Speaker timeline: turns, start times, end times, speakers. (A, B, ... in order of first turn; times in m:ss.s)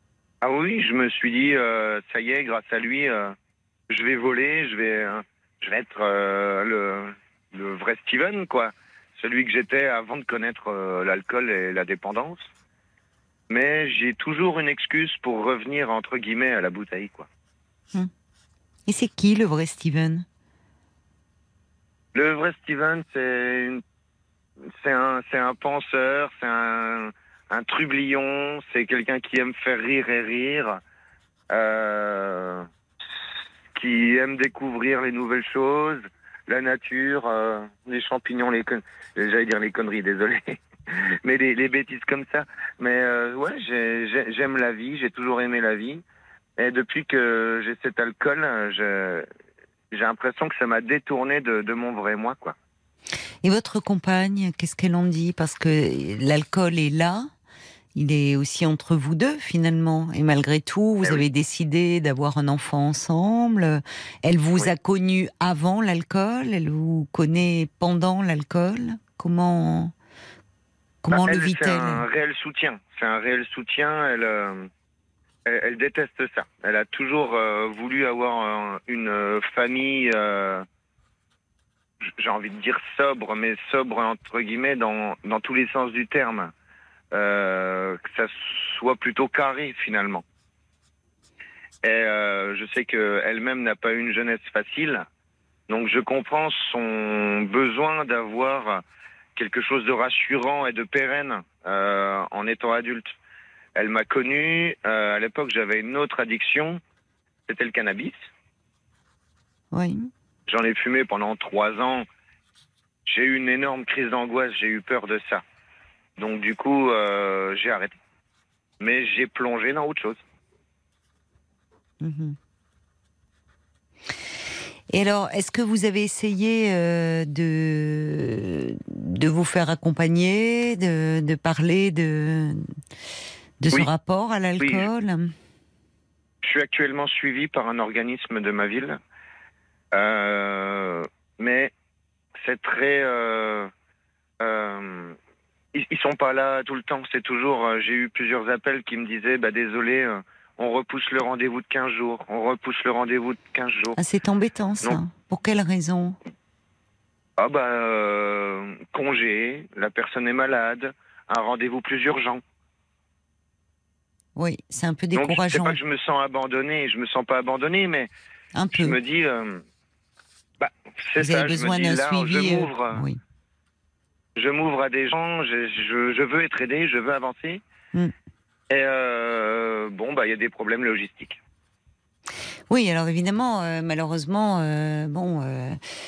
0:00.4-0:03.3 A
0:03.9-0:12.4 A
0:13.5-0:17.3 A
0:18.9-0:20.2 B
0:22.1-0:23.8 A
0:24.7-0:30.8 A
0:31.5-0:32.7 A
0:33.7-0:46.0 A
0:46.6-0:49.2 A
0:49.9-0:52.6 A
0:53.4-0:57.3 B
0:57.9-1:09.9 B
1:11.0-1:12.1 B
1:11.1-1:14.7 A
1:15.4-1:20.6 A
1:22.0-1:26.5 A
1:27.1-1:30.2 A
1:31.8-1:35.0 A
1:35.7-1:38.8 A
1:39.3-1:43.0 A
1:43.8-1:46.8 A
1:47.5-1:48.1 A
1:49.7-1:50.1 B
1:50.5-1:52.0 A
1:53.0-1:55.4 A
1:56.2-1:58.0 A
1:58.8-2:00.2 A
2:02.0-2:02.4 B
2:04.9-2:12.6 B
2:13.6-2:15.3 B
2:14.6-2:14.8 A
2:16.4-2:19.0 A
2:19.9-2:21.7 A
2:22.4-2:23.7 A
2:24.4-2:25.2 A
2:25.7-2:34.0 A
2:34.0-2:36.2 B
2:37.4-2:42.4 A
2:44.4-2:45.8 B
2:45.1-2:48.1 A
2:48.5-2:49.0 B
2:48.7-2:49.6 A
2:50.6-2:53.0 A
2:51.2-2:53.2 B
2:54.4-2:57.6 A
2:58.7-3:01.4 A
3:02.7-3:05.8 B